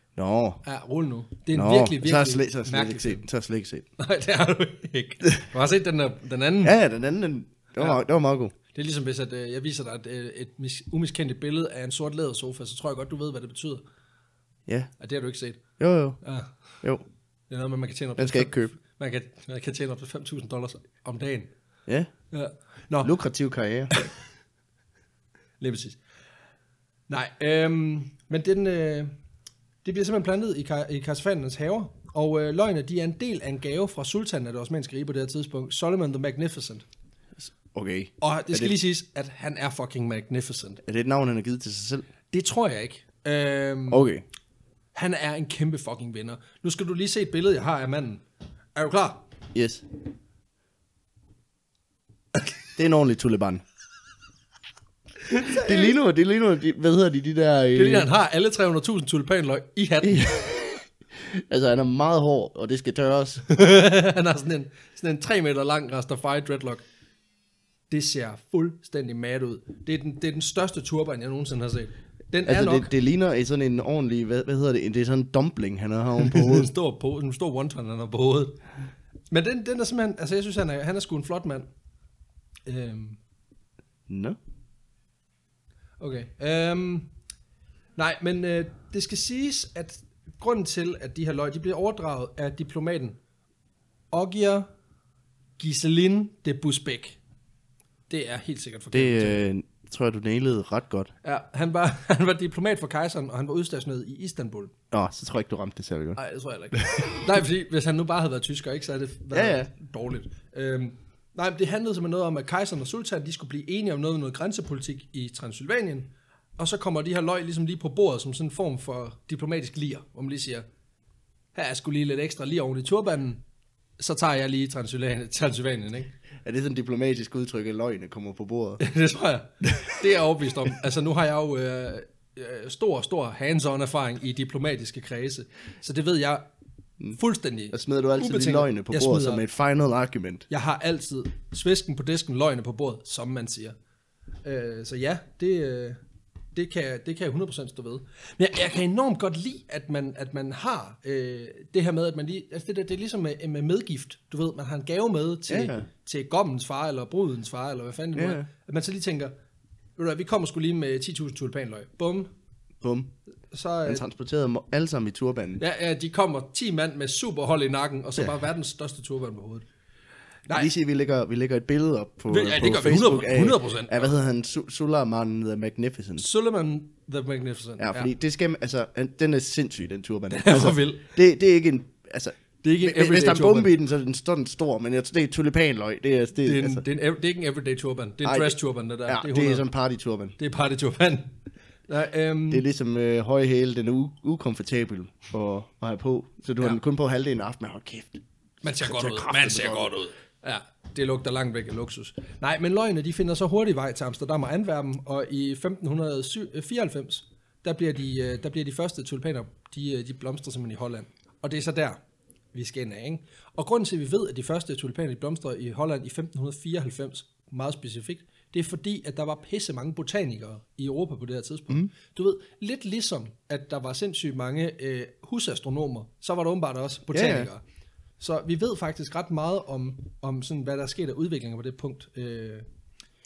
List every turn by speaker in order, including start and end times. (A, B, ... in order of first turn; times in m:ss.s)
0:00.2-0:00.6 A
0:00.6-0:03.2 B
0:01.5-0:03.9 A
0:04.0-0:06.8 B
0:06.6-0:08.5 A
0:08.7-0:13.8 B
0:15.0-0:15.6 B
0:15.8-0:16.2 A
0:16.2-0:16.5 B
0:17.5-0:21.5 B
0:18.2-0:18.8 A
0:22.3-0:23.1 B
0:23.0-0:23.9 A
0:25.6-0:26.0 B
0:27.1-0:29.1 B
0:29.8-0:36.8 B
0:37.4-0:38.7 A
0:38.2-0:40.8 B
0:40.8-0:42.0 A
0:42.3-0:44.0 B
0:43.9-0:44.2 A
0:44.9-0:48.2 B
0:48.7-0:49.3 B
0:49.5-0:49.8 A
0:52.8-0:53.6 A
0:55.3-0:55.9 B
0:55.4-0:58.1 A
0:57.7-1:00.6 B
1:00.0-1:03.4 A
1:03.5-1:06.8 B
1:07.9-1:12.9 B
1:12.4-1:16.7 A
1:16.2-1:18.6 B
1:19.3-1:21.7 B
1:22.6-1:23.2 B
1:24.1-1:24.4 A
1:26.0-1:27.1 B
1:28.0-1:33.2 B
1:34.1-1:34.7 B
1:35.6-1:37.2 B
1:38.1-1:39.4 B
1:38.9-1:41.1 A
1:41.2-1:44.7 B
1:44.9-1:46.2 A
1:46.2-2:00.6 B
1:46.8-1:47.2 A
1:49.3-1:49.7 A
2:01.5-2:03.4 B
2:04.0-2:06.1 B
2:06.4-2:08.8 A
2:08.8-2:16.4 B
2:09.7-2:10.0 A
2:17.1-2:19.4 B
2:17.7-2:20.4 A
2:20.5-2:23.7 B
2:24.4-2:26.0 B
2:26.5-2:39.3 B
2:35.5-2:35.9 A
2:38.1-2:38.5 A
2:40.0-2:42.3 B
2:42.8-2:43.1 A
2:43.5-2:44.0 B
2:43.8-2:45.6 A
2:45.6-2:49.6 B
2:50.5-2:56.3 A
2:52.3-2:54.1 B
2:56.2-2:58.1 B
2:57.8-3:06.8 A
3:00.3-3:01.0 B
3:02.6-3:03.7 B
3:06.4-3:09.7 B
3:08.2-3:10.4 A
3:10.4-3:11.3 B
3:11.9-3:12.6 B
3:12.5-3:19.9 A
3:18.6-3:32.0 B
3:32.5-3:47.6 B
3:47.1-3:47.5 A
3:48.2-3:52.6 B